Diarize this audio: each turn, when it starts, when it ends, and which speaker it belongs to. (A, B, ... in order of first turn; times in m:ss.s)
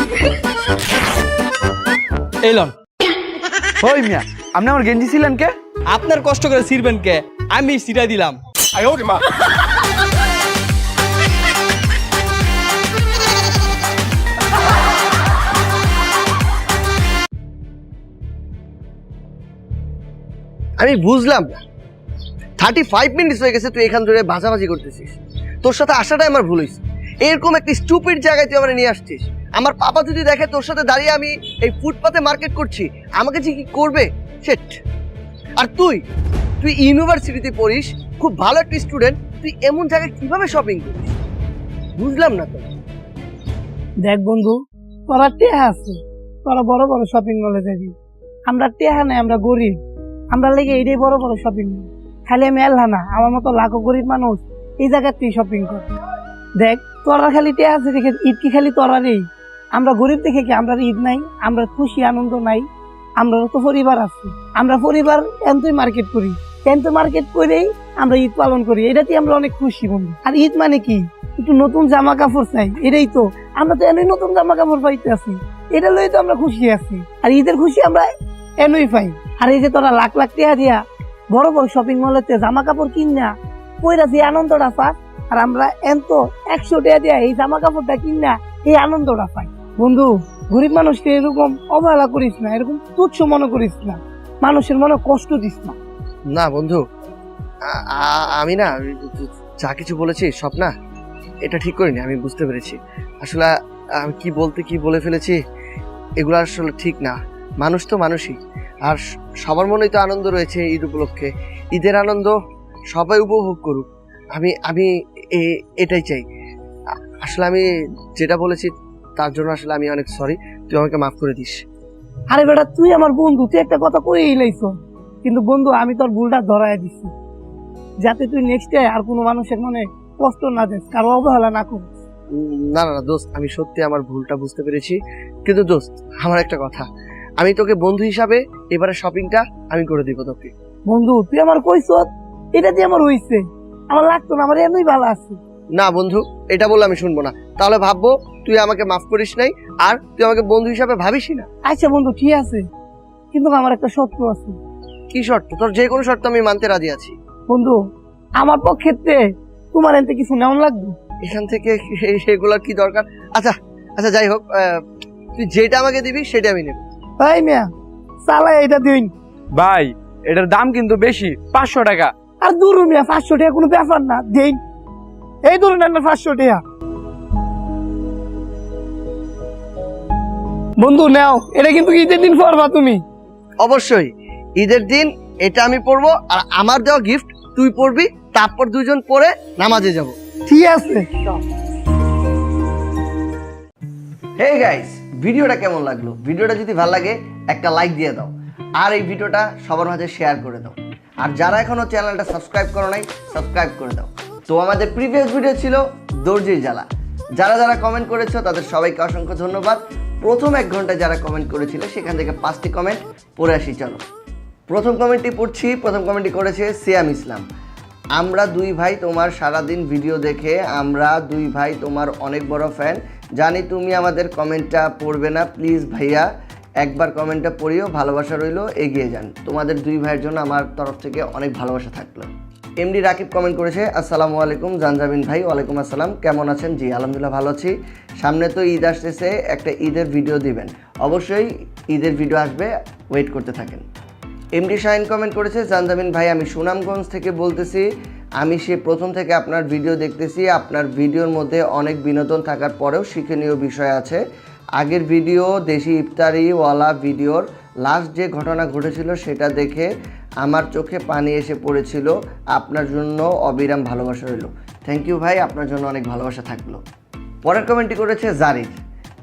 0:02.4-0:02.7 A
0:03.8-0:05.5 B
0:05.9-0:08.4 A
0:20.8-0:21.6 C
0:22.6-0:34.8 C
0:35.6-0:36.0 C
0:36.6-0:41.2 C
0:42.0-0:42.7 C
0:44.0-0:44.6 D
0:45.1-0:48.0 D
0:48.5-0:49.8 D
0:50.3-0:55.9 D
0:56.6-1:02.7 D
1:03.2-1:18.1 D
1:18.6-1:35.8 D
1:36.3-1:36.8 C
1:37.6-1:40.7 C
1:41.4-1:45.4 C
1:46.2-1:52.4 C
1:52.9-1:56.3 C
1:57.2-2:01.6 C
2:02.3-2:04.7 D
2:05.2-2:07.1 D
2:08.0-2:12.0 D
2:12.3-2:20.5 C
2:20.9-2:25.4 D
2:25.8-2:31.5 C
2:31.7-2:32.6 D
2:33.3-2:34.6 D
2:35.1-2:37.2 C
2:37.5-2:37.8 D
2:38.4-2:39.2 D
2:39.7-2:41.0 D
2:41.2-2:44.8 C
2:45.4-2:46.8 C
2:47.2-2:47.7 D
2:48.2-2:49.1 D
2:49.6-2:52.1 B
2:52.4-2:54.6 D
2:55.5-2:56.6 D
3:00.8-3:03.0 D
3:03.6-3:10.2 C
3:10.5-3:11.2 D
3:14.4-3:34.0 C
3:34.7-3:37.4 C
3:38.2-3:46.3 C
3:46.8-4:03.8 C
4:04.6-4:07.9 C
4:08.4-4:14.2 C
4:14.8-4:19.9 C
4:20.4-4:26.8 C
4:27.4-4:28.8 C